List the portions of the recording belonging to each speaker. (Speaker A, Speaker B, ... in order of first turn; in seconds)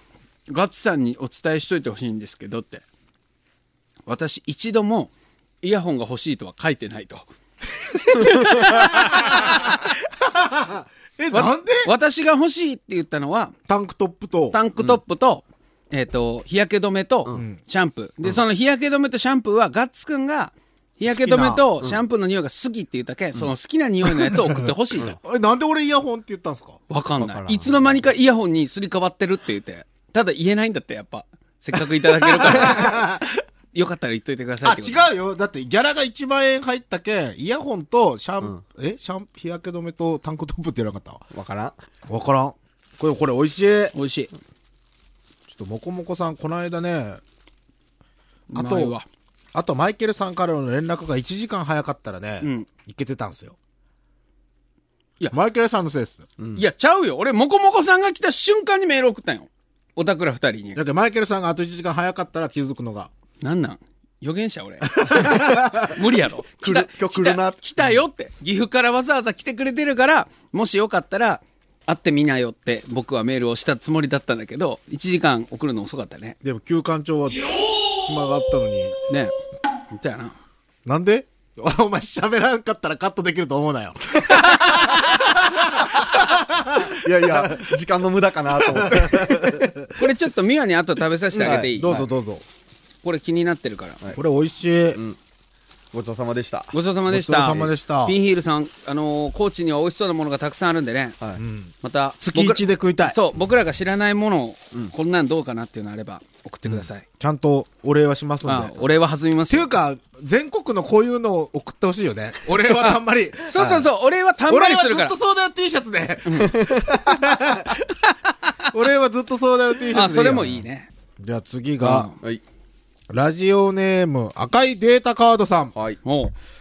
Speaker A: 0.5-2.8, 4.0-5.1, 5.6-7.2, 8.2-9.7, 11.3-13.5, 14.5-25.2, 26.9-33.0, 33.7-35.0, 43.9-44.3, 48.5-49.0, 52.4-52.7, 56.5-60.8, 63.4-76.4, 79.9-80.3, 84.5-85.0, 90.0-92.0, 93.0-94.0, 96.7-101.2, 101.8-107.0, 108.4-109.7, 112.8-115.2, 116.2-116.5, 119.9-120.9, 121.8-122.2, 126.0-126.3
Speaker B: 7.9-11.9, 13.7-14.6, 21.1-21.6, 24.2-26.8, 32.2-33.3, 34.6-41.2, 42.1-43.9, 45.5-47.2, 48.5-48.9, 49.5-53.5, 55.3-56.2, 60.7-63.1, 64.9-65.9, 76.4-77.5, 78.0-79.0, 80.8-87.7, 88.7-89.9, 91.4-92.4, 94.1-95.0, 97.1-98.2, 101.4-103.2, 107.2-108.9, 109.5-113.6, 114.5-117.9, 118.7-120.6, 121.2-122.1, 123.1-125.7
Speaker C: 8.2-8.6, 27.2-28.1, 41.3-41.7, 56.4-56.6, 66.6-67.6, 86.9-89.7, 91.3-92.1, 95.9-96.7, 113.6-113.8, 116.4-117.2, 125.7-126.0